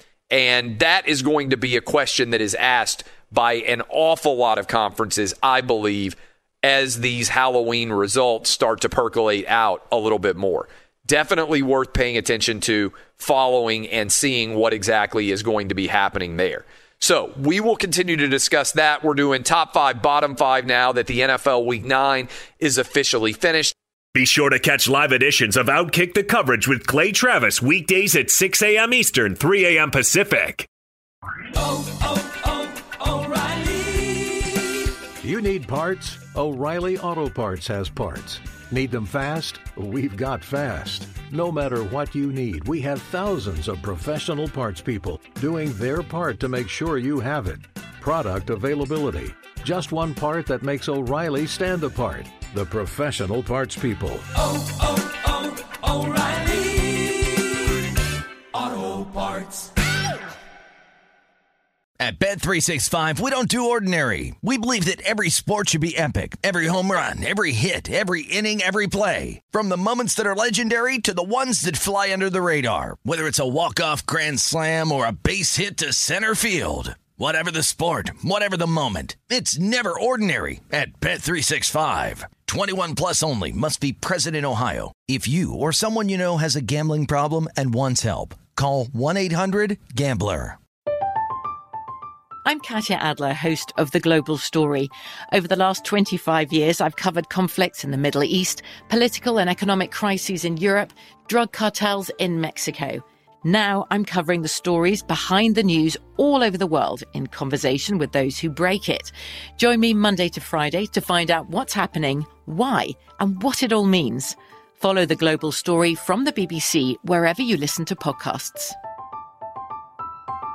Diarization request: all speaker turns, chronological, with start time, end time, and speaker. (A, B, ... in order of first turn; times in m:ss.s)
0:00.3-0:23.7 A
0:24.2-0:30.7 B
0:33.1-0:33.5 B
0:35.2-0:54.3 C
0:56.2-0:57.4 D
0:58.6-0:59.6 D
1:02.0-1:30.6 E
1:32.4-1:58.8 F